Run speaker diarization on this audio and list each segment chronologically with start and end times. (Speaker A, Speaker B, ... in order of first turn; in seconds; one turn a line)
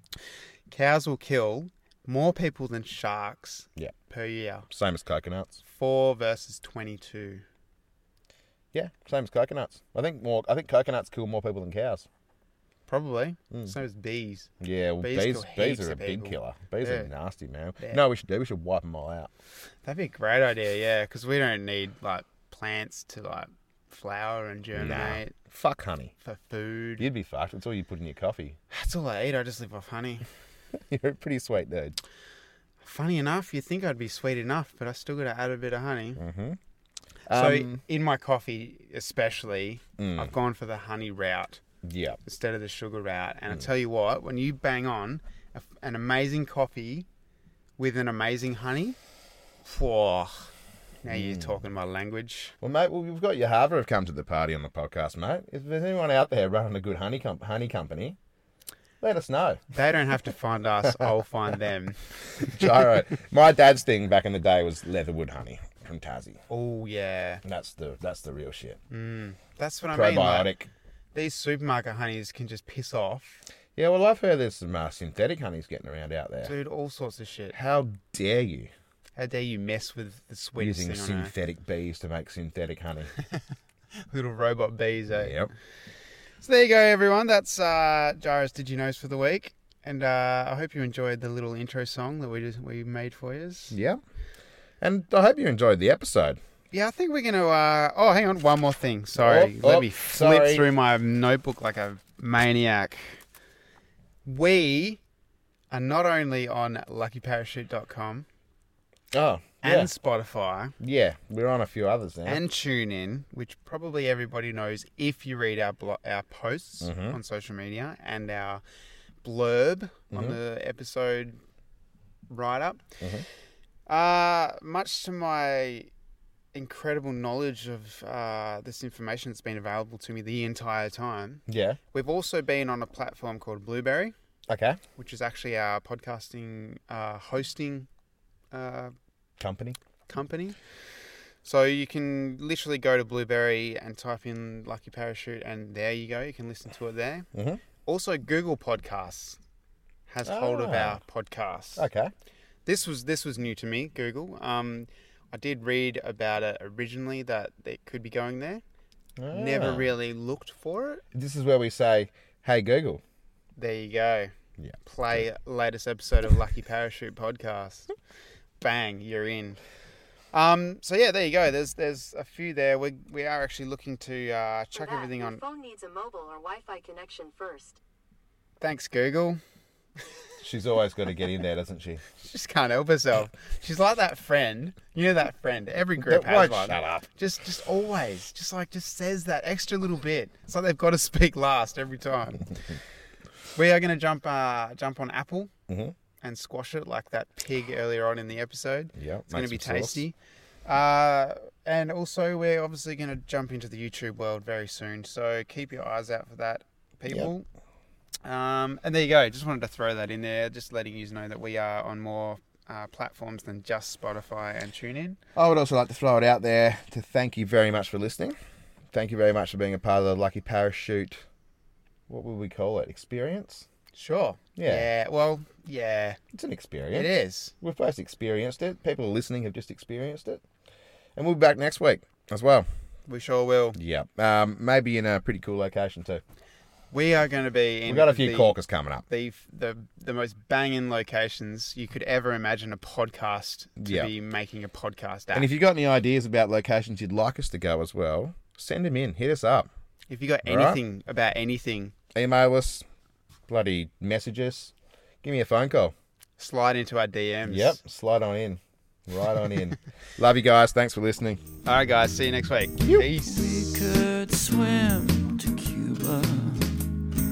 Speaker A: 0.7-4.7
Speaker B: 4.7-5.6
Speaker A: 5.6-7.4
Speaker B: 8.7-12.1
Speaker A: 12.9-14.5
Speaker B: 14.6-19.3
Speaker A: 15.0-17.1
Speaker A: 19.8-25.3
Speaker B: 24.7-26.1
Speaker A: 26.2-27.1
Speaker B: 27.0-28.6
Speaker A: 28.7-30.3
Speaker B: 30.8-32.0
Speaker A: 32.8-36.2
Speaker B: 36.2-36.6
Speaker B: 37.3-37.8
Speaker A: 37.3-41.6
Speaker B: 40.0-40.3
Speaker B: 41.8-42.2
Speaker A: 42.2-47.1
Speaker A: 47.8-49.0
Speaker A: 49.6-50.5
Speaker A: 51.0-52.5
Speaker B: 51.1-51.6
Speaker B: 52.6-58.2
Speaker B: 59.0-59.6
Speaker A: 59.7-62.8
Speaker B: 62.4-66.4
Speaker A: 66.5-67.4
Speaker B: 67.4-68.8
Speaker A: 68.9-70.5
Speaker B: 69.9-70.7
Speaker A: 71.2-73.4
Speaker B: 73.8-76.5
Speaker A: 76.4-77.6
Speaker B: 77.5-78.7
Speaker A: 79.2-81.3
Speaker B: 80.6-83.1
Speaker A: 84.1-85.3
Speaker B: 85.1-85.5
Speaker A: 86.4-93.8
Speaker B: 93.7-94.0
Speaker B: 94.8-96.4
Speaker A: 96.7-103.2
Speaker B: 99.2-100.7
Speaker A: 104.2-105.0
Speaker A: 105.7-108.3
Speaker B: 109.1-109.9
Speaker A: 109.6-110.8
Speaker B: 110.8-112.4
Speaker A: 112.3-118.6
Speaker B: 116.8-117.2
Speaker A: 119.2-121.4
Speaker B: 120.1-120.4
Speaker A: 122.3-123.0
Speaker B: 123.0-123.3
Speaker A: 123.9-125.9
Speaker A: 126.5-134.1
Speaker B: 131.5-131.8
Speaker B: 134.5-134.8
Speaker A: 135.0-137.9
Speaker A: 138.5-138.9
Speaker B: 139.4-139.8
Speaker A: 140.1-140.6
Speaker A: 141.4-147.3
Speaker B: 147.3-147.6
Speaker A: 147.8-149.4
Speaker A: 150.1-151.9
Speaker B: 150.2-151.0
Speaker B: 151.8-152.1
Speaker A: 152.7-158.6
Speaker B: 159.2-159.9
Speaker A: 159.3-161.0
Speaker B: 161.1-163.0
Speaker A: 163.6-164.3
Speaker B: 164.6-165.3
Speaker A: 164.8-167.9
Speaker A: 168.6-169.6
Speaker A: 170.3-175.4
Speaker C: 174.7-177.8
Speaker A: 178.6-179.4
Speaker B: 180.4-182.1
Speaker A: 182.2-192.6
Speaker B: 186.0-187.1
Speaker A: 193.6-195.5
Speaker B: 195.7-195.9
Speaker A: 196.2-200.2
Speaker B: 198.9-200.0
Speaker A: 200.7-207.5
Speaker A: 208.2-215.2
Speaker B: 215.3-218.4
Speaker B: 218.9-221.2
Speaker B: 222.1-223.7
Speaker A: 223.9-226.2
Speaker B: 224.6-224.9
Speaker B: 226.3-230.4
Speaker A: 226.9-227.5
Speaker B: 231.2-232.7
Speaker A: 233.1-233.8
Speaker B: 233.8-236.2
Speaker A: 236.9-238.6
Speaker B: 237.9-239.1
Speaker A: 239.1-245.5
Speaker B: 243.8-244.1
Speaker B: 245.3-249.7
Speaker A: 250.1-251.9
Speaker B: 250.4-250.8
Speaker B: 252.1-252.8
Speaker B: 253.5-255.9
Speaker A: 256.4-257.8
Speaker B: 257.4-261.4
Speaker A: 261.6-263.8
Speaker B: 262.8-263.1
Speaker D: 263.1-267.0